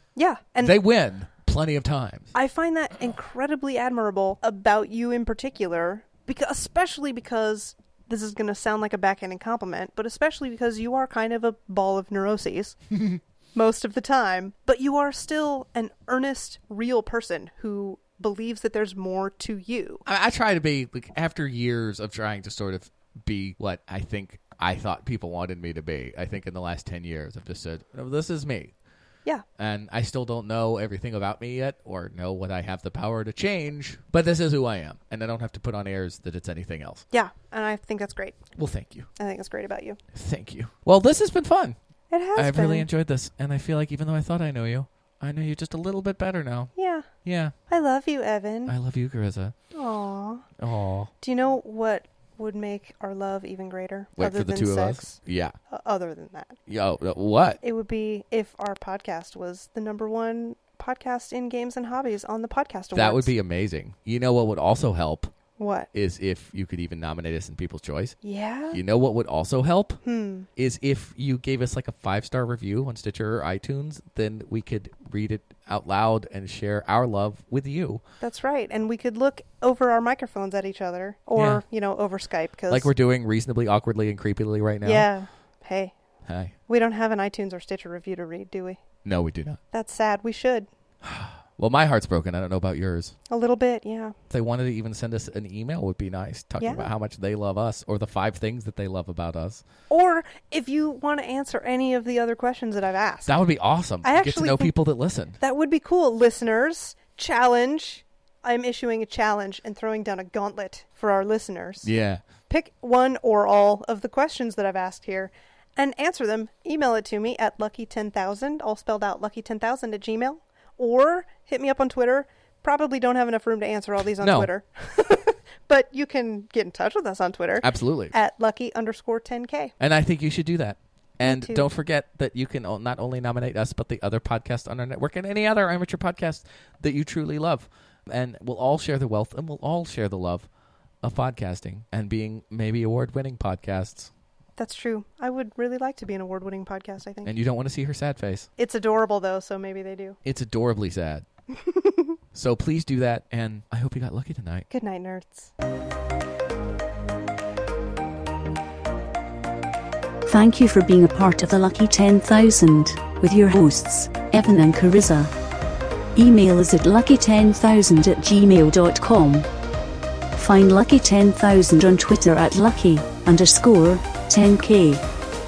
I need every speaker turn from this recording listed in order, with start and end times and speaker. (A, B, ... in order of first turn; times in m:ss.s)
0:00.2-0:00.8 A
0:00.6-0:02.3 B
0:02.3-0:12.8 A
0:13.6-0:20.0 A
0:20.1-0:28.7 B
0:29.6-0:37.0 B
0:37.1-0:38.4 A
0:38.6-0:39.1 B
0:39.2-0:40.0 A
0:40.1-0:41.8 B
0:42.1-0:42.9 A
0:42.4-0:46.7 B
0:46.8-0:47.1 A
0:47.2-0:47.5 B
0:47.7-0:48.7 A
0:48.7-0:49.5 B
0:49.7-0:50.5 A
0:50.6-0:51.1 B
0:51.2-0:55.2 A
0:54.2-0:55.6 B
0:55.7-0:56.6 A
0:56.7-0:57.6 B
0:57.6-1:03.3 A
1:02.9-1:05.3 B
1:05.6-1:05.9 A
1:05.9-1:08.2 B
1:08.2-1:08.8 A
1:08.7-1:10.0 B
1:10.0-1:10.5 A
1:10.6-1:18.0 B
1:18.2-1:22.9 A
1:21.4-1:21.6 B
1:22.7-1:25.1 B
1:24.8-1:25.9 A
1:26.3-1:26.5 B
1:26.7-1:28.8 A
1:29.0-1:29.6 B
1:29.7-1:30.7 A
1:31.0-1:33.2 B
1:33.3-1:34.2 A
1:34.3-1:39.6 B
1:36.6-1:36.9 A
1:39.9-1:43.4 A
1:43.3-1:45.4 B
1:44.0-1:44.7 A
1:45.4-1:51.9 A
1:51.8-1:52.2 B
1:52.5-2:09.7 A
2:04.2-2:04.5 B
2:07.6-2:08.1 B
2:09.8-2:20.5 B
2:11.2-2:11.6 A
2:21.0-2:24.1 B
2:24.6-2:27.3 A
2:27.2-2:28.5 B
2:28.6-2:30.2 A
2:30.2-2:31.3 B
2:31.6-2:32.2 A
2:32.3-2:34.7 B
2:34.7-2:35.5 A
2:40.3-2:45.3 C
2:46.2-2:49.5 C
2:50.3-2:55.0 C